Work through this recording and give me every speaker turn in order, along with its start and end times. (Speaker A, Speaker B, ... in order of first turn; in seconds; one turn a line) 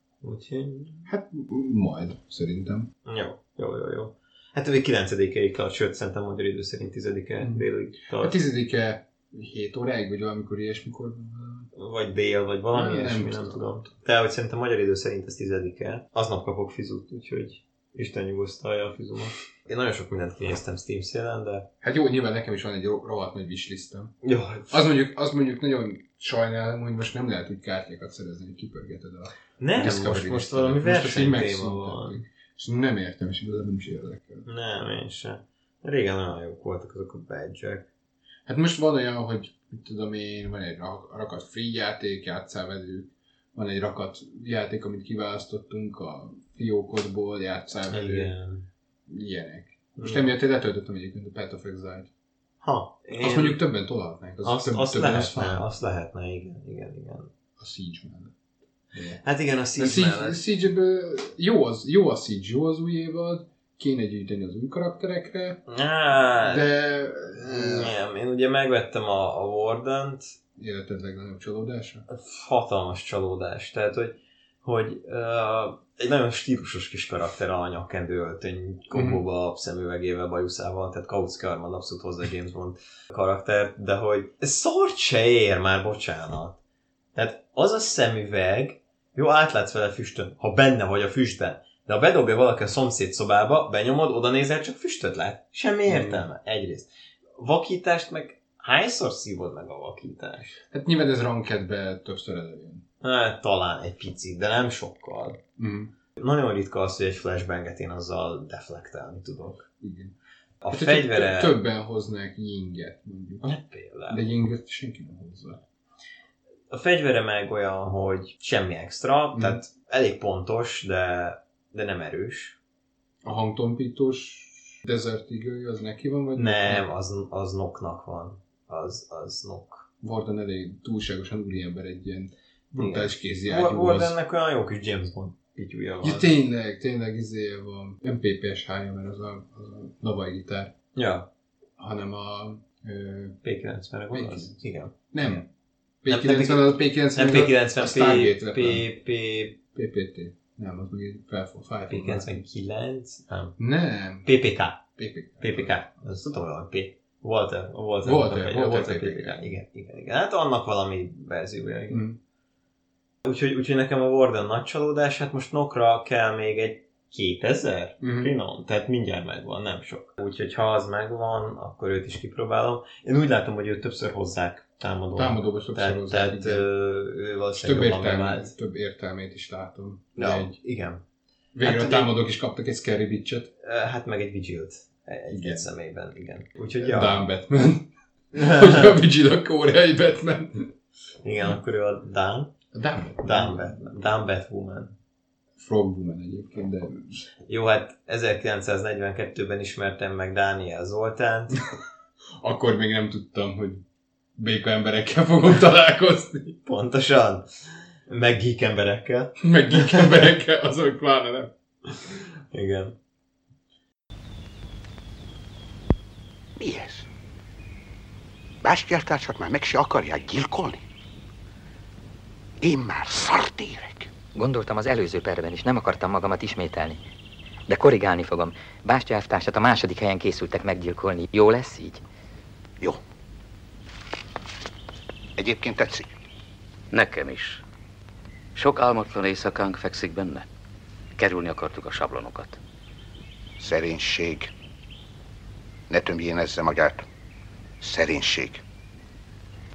Speaker A: 0.2-1.1
Speaker B: 1.1-2.9
Speaker A: 3.0-8.4
Speaker B: 7.4-11.7
Speaker A: 11.7-21.7
Speaker B: 12.7-13.6
Speaker B: 21.8-24.1
Speaker A: 24.2-24.8
Speaker B: 24.7-34.5
Speaker A: 29.6-32.2
Speaker A: 34.5-37.9
Speaker B: 38.5-48.3
Speaker A: 47.9-48.6
Speaker B: 49.1-52.1
Speaker A: 50.0-50.3
Speaker A: 52.6-53.6
Speaker B: 53.2-55.6
Speaker A: 54.4-57.3
Speaker B: 57.6-58.4
Speaker B: 58.9-59.2
Speaker A: 59.2-60.4
Speaker B: 59.8-65.7
Speaker A: 65.7-66.7
Speaker B: 66.4-67.9
Speaker A: 67.3-70.3
Speaker B: 70.6-72.0
Speaker A: 72.1-86.6
Speaker B: 78.9-79.2
Speaker A: 87.1-100.6
Speaker B: 95.8-96.2
Speaker B: 100.7-102.8
Speaker A: 103.0-105.4
Speaker B: 105.6-105.9
Speaker A: 106.2-109.7
Speaker B: 109.8-110.1
Speaker A: 110.6-111.6
Speaker B: 110.7-113.5
Speaker A: 113.4-114.2
Speaker B: 114.1-115.6
Speaker A: 116.7-122.6
Speaker B: 119.3-119.6
Speaker B: 123.2-126.8
Speaker A: 126.3-129.9
Speaker B: 130.0-134.2
Speaker A: 132.8-136.3
Speaker B: 136.0-140.7
Speaker A: 140.9-141.3
Speaker B: 141.8-143.4
Speaker A: 143.4-145.4
Speaker B: 144.1-145.4
Speaker B: 146.0-148.9
Speaker A: 146.1-149.6
Speaker B: 149.7-152.4
Speaker A: 151.9-153.6
Speaker B: 153.6-154.3
Speaker A: 154.2-154.8
Speaker B: 154.9-155.9
Speaker A: 155.4-162.0
Speaker B: 158.0-159.5
Speaker B: 161.9-162.2
Speaker A: 163.2-178.5
Speaker B: 168.0-168.3
Speaker B: 175.2-176.7
Speaker B: 177.6-180.5
Speaker A: 180.2-181.0
Speaker B: 181.5-183.5
Speaker A: 181.6-182.1
Speaker A: 183.6-187.3
Speaker B: 185.3-185.7
Speaker B: 186.8-190.7
Speaker A: 188.3-189.0
Speaker A: 191.2-192.6
Speaker B: 192.7-193.8
Speaker A: 193.2-194.9
Speaker B: 195.6-197.2
Speaker A: 197.4-201.6
Speaker B: 202.4-203.8
Speaker B: 204.4-206.6
Speaker A: 206.6-210.3
Speaker B: 209.4-211.5
Speaker A: 212.5-212.9
Speaker C: 216.6-217.1
Speaker C: 218.6-220.8
Speaker C: 222.6-224.1
Speaker D: 224.3-227.0
Speaker D: 227.7-232.0
Speaker C: 235.4-236.1
Speaker E: 236.9-237.6
Speaker E: 238.5-240.5
Speaker E: 241.2-242.6
Speaker C: 243.6-244.5
Speaker C: 245.9-247.1
Speaker C: 247.8-248.6